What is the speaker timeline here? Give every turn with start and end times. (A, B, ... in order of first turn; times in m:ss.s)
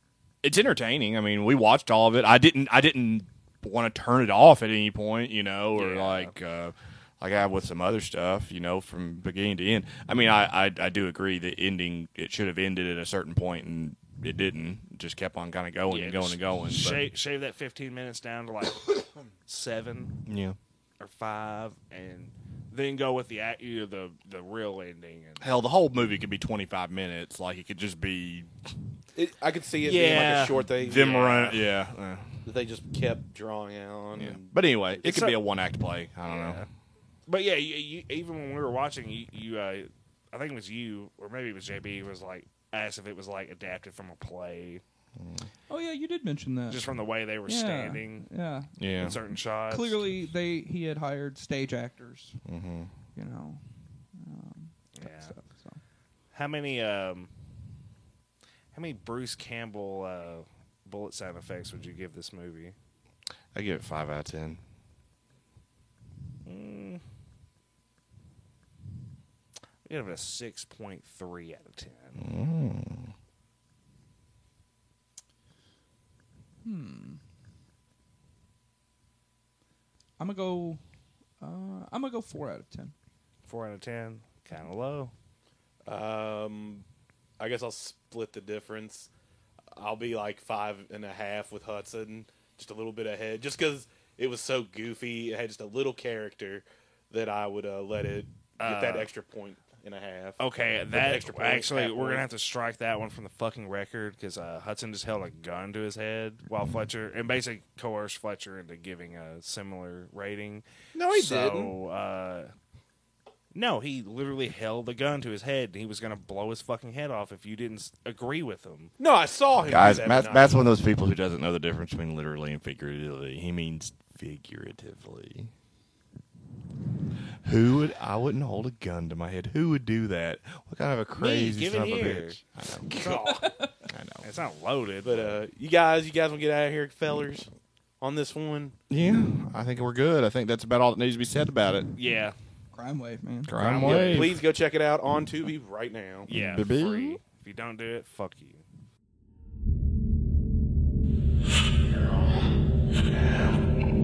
0:00.4-0:17.1 A
0:05.7-0:06.3 B
0:15.9-0:20.2 B
0:20.2-0:20.6 A
0:21.0-0:25.4 B
0:25.4-0:28.5 A
0:29.1-0:31.6 C
0:29.8-0:31.5 B
0:30.8-0:32.4 A
0:32.4-0:35.3 C
0:34.1-0:36.6 A
0:35.0-0:35.3 B
0:36.2-0:36.7 B
0:37.3-0:44.8 B
0:45.2-0:45.5 A
0:45.7-0:46.8 D
0:46.7-0:48.3 B
0:47.4-0:52.4 D
0:48.8-0:49.2 A
0:49.0-0:50.1 B
0:52.4-0:52.9 A
0:53.1-0:53.6 D
0:54.1-0:55.8 D
0:55.0-0:55.3 B
0:56.3-0:57.3 B
0:58.7-1:02.7 B
1:03.5-1:04.6 A
1:06.4-1:07.0 B
1:09.8-1:12.2 B
1:12.2-1:13.1 A
1:16.6-1:17.2 D
1:20.2-1:20.8 D
1:21.4-1:22.9 D
1:23.5-1:25.1 B
1:25.8-1:26.8 C
1:27.4-1:29.1 C
1:29.7-1:42.3 C
1:38.6-1:39.1 B
1:40.4-1:52.5 B
1:50.9-1:51.7 C
1:53.5-1:58.9 B
1:59.0-2:00.6 C
1:59.6-2:05.5 A
2:07.4-2:13.3 A
2:11.2-2:12.4 B
2:12.9-2:13.4 C
2:12.9-2:13.7 D
2:13.9-2:14.2 A
2:14.2-2:15.4 B
2:15.0-2:17.5 C
2:18.0-2:18.8 C
2:18.9-2:21.9 A
2:22.0-2:22.3 B
2:22.7-2:23.6 D
2:23.5-2:24.3 A
2:23.6-2:24.3 B
2:23.8-2:26.3 C
2:26.2-2:28.6 B
2:26.3-2:27.2 A
2:33.0-2:33.6 A